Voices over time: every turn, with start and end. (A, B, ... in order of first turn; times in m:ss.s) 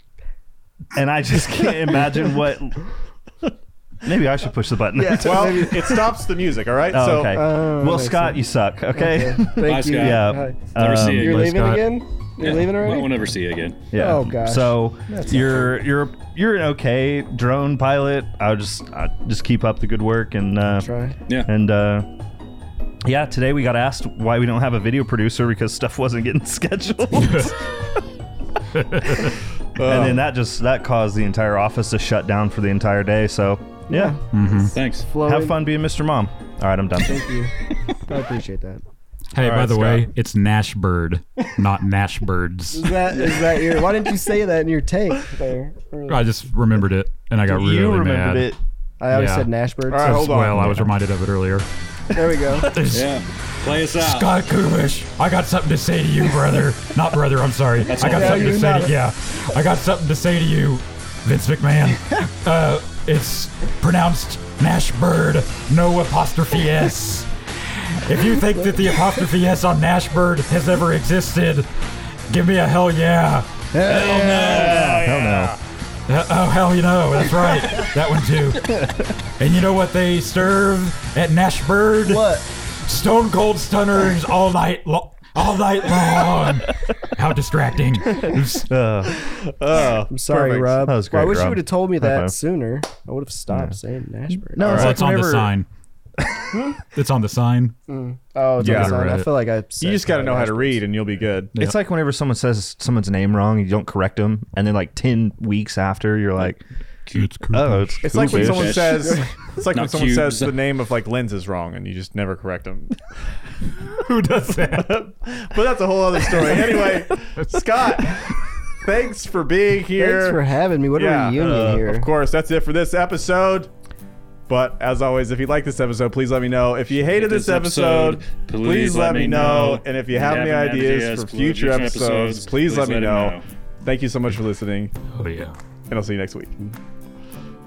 0:00.9-0:02.9 A
0:04.0-0:05.8 A
0:04.9-0:06.0 B
0:05.2-0:07.4 C
0:06.9-0:11.5 A
0:07.3-0:13.1 B
0:09.6-0:11.6 D
0:10.8-0:12.0 E
0:12.4-0:13.8 D
0:13.9-0:22.1 A
0:13.9-0:15.3 B
0:20.8-0:21.2 B
0:23.0-0:27.6 A
0:28.8-0:29.2 E
0:29.8-0:30.2 C
0:29.8-0:34.2 A
0:33.9-0:35.6 B
0:34.3-0:34.8 E
0:34.7-0:35.0 D
0:35.2-0:37.2 A
0:37.0-0:37.5 B
0:38.1-0:38.8 B
0:39.3-0:43.0 E
0:39.4-0:40.1 A
0:42.7-0:46.3 B
0:46.1-0:48.5 E
0:47.4-0:48.6 A
0:49.0-0:50.5 B
0:49.1-0:51.6 E
0:49.9-0:50.7 C
0:52.1-0:52.7 B
0:52.6-0:53.1 E
0:52.9-0:54.4 D
0:53.9-1:07.3 E
0:57.9-0:58.9 D
0:58.0-0:58.9 B
1:08.0-1:11.7 E
1:12.3-1:13.5 E
1:13.7-1:15.0 B
1:13.8-1:15.5 D
1:14.9-1:15.5 A
1:16.1-1:28.7 E
1:22.0-1:22.4 B
1:28.7-1:29.1 A
1:29.0-1:30.9 C
1:30.1-1:34.8 B
1:30.8-1:32.4 A
1:34.5-1:35.5 A
1:34.6-1:35.0 C
1:34.6-1:35.7 E
1:36.9-1:37.8 E
1:37.9-1:40.9 B
1:38.6-1:39.0 C
1:38.6-1:39.3 E
1:39.8-1:41.6 C
1:41.6-1:46.6 A
1:47.1-1:47.4 D
1:47.1-1:48.0 E
1:47.5-1:49.0 A
1:48.0-1:53.0 C
1:48.1-1:50.6 D
1:54.0-1:55.0 E
1:54.5-1:58.2 C
1:58.8-2:03.7 C
2:00.0-2:02.1 B
2:04.5-2:14.9 C
2:07.0-2:13.4 D
2:15.1-2:15.6 E
2:15.9-2:16.6 C